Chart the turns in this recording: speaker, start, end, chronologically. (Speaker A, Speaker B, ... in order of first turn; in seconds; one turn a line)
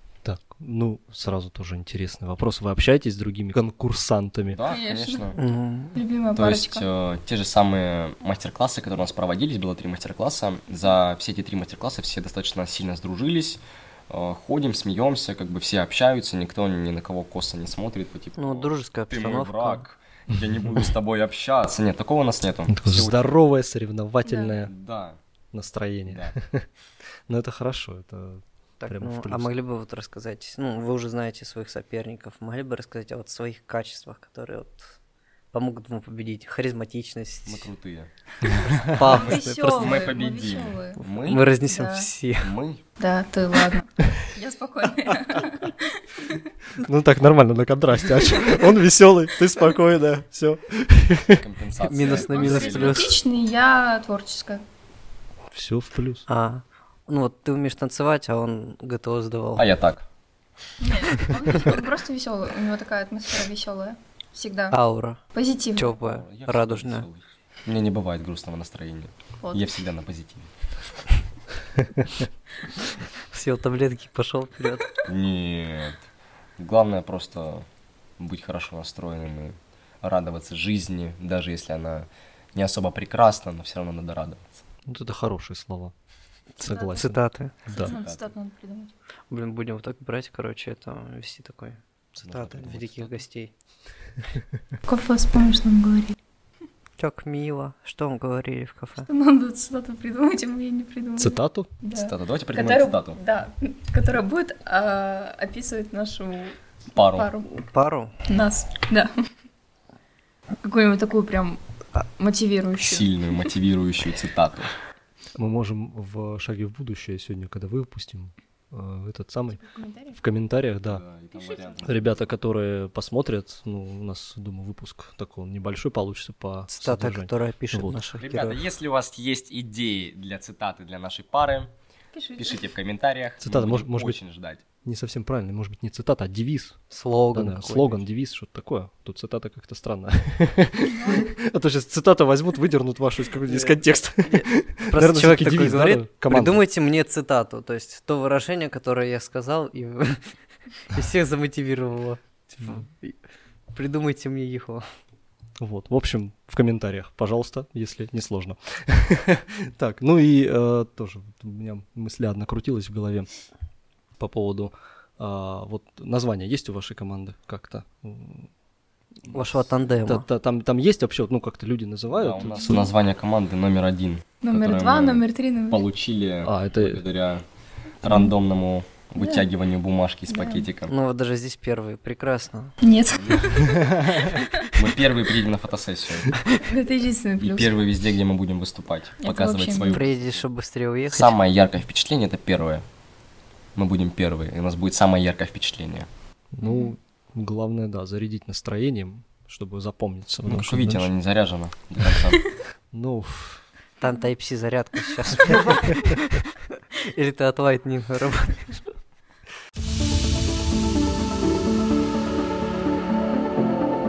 Speaker A: 0.2-4.6
Speaker B: 4.5-5.4
Speaker C: 4.7-5.3
Speaker D: 5.4-6.0
Speaker C: 6.0-6.9
Speaker B: 6.4-23.2
Speaker D: 18.4-19.8
Speaker A: 22.7-24.7
Speaker C: 24.2-24.5
Speaker B: 24.6-25.2
Speaker A: 25.5-26.6
Speaker B: 26.1-26.3
Speaker A: 27.3-29.5
Speaker D: 28.8-35.0
Speaker D: 35.5-37.7
Speaker B: 37.5-38.1
Speaker D: 38.5-40.1
Speaker C: 39.0-42.1
Speaker B: 39.0-41.5
Speaker D: 41.2-42.5
Speaker B: 42.4-42.8
Speaker C: 43.0-46.5
Speaker A: 46.8-51.4
Speaker B: 51.4-53.2
Speaker D: 51.9-53.2
Speaker C: 52.1-54.6
Speaker A: 55.5-56.2
Speaker D: 56.3-59.7
Speaker B: 59.6-60.0
Speaker C: 60.8-64.8
Speaker D: 64.7-65.2
Speaker C: 65.3-66.0
Speaker D: 65.8-67.1
Speaker B: 65.9-70.5
Speaker C: 69.4-69.7
Speaker D: 72.9-74.9
Speaker B: 75.0-76.0
Speaker B: 76.6-77.7
Speaker B: 78.2-84.6
Speaker A: 84.9-85.9
Speaker A: 86.6-88.0
Speaker C: 86.6-88.9
Speaker D: 87.0-87.5
Speaker B: 87.8-88.3
Speaker D: 89.3-93.5
Speaker B: 92.2-93.2
Speaker C: 94.9-96.2
Speaker D: 97.0-99.1
Speaker C: 99.0-107.5
Speaker A: 101.2-101.7
Speaker B: 102.0-103.2
Speaker B: 106.9-107.3
Speaker D: 107.5-108.1
Speaker C: 108.3-109.1
Speaker C: 110.6-113.5
Speaker B: 112.8-114.7
Speaker A: 115.4-119.6
Speaker C: 119.5-120.2
Speaker A: 120.1-121.0
Speaker B: 120.8-122.3
Speaker C: 121.4-121.8
Speaker A: 121.8-128.0
Speaker D: 126.7-128.6
Speaker B: 128.2-131.7
Speaker C: 132.1-132.6
Speaker B: 132.4-134.6
Speaker A: 133.4-134.2
Speaker A: 134.8-136.8
Speaker D: 136.9-138.1
Speaker A: 137.3-146.6
Speaker C: 140.8-141.3
Speaker D: 143.4-150.2
Speaker D: 150.9-153.2
Speaker D: 153.7-154.8
Speaker A: 155.6-163.3
Speaker A: 164.2-168.5
Speaker D: 169.3-170.2
Speaker A: 170.1-172.8
Speaker B: 172.1-177.4
Speaker C: 172.5-172.9
Speaker C: 174.4-175.8
Speaker A: 176.4-177.0
Speaker B: 178.0-180.9
Speaker C: 179.2-179.5
Speaker C: 180.3-180.7
Speaker D: 180.9-182.8
Speaker C: 182.8-184.7
Speaker B: 183.1-183.8
Speaker B: 184.7-186.4
Speaker C: 186.6-187.8
Speaker B: 187.4-190.4
Speaker C: 189.2-190.0
Speaker D: 189.9-191.3
Speaker B: 191.1-192.8
Speaker B: 193.8-196.1
Speaker A: 196.5-201.1
Speaker C: 196.6-196.9
Speaker B: 200.5-202.4
Speaker A: 202.9-203.6
Speaker D: 204.0-206.3
Speaker D: 207.1-208.8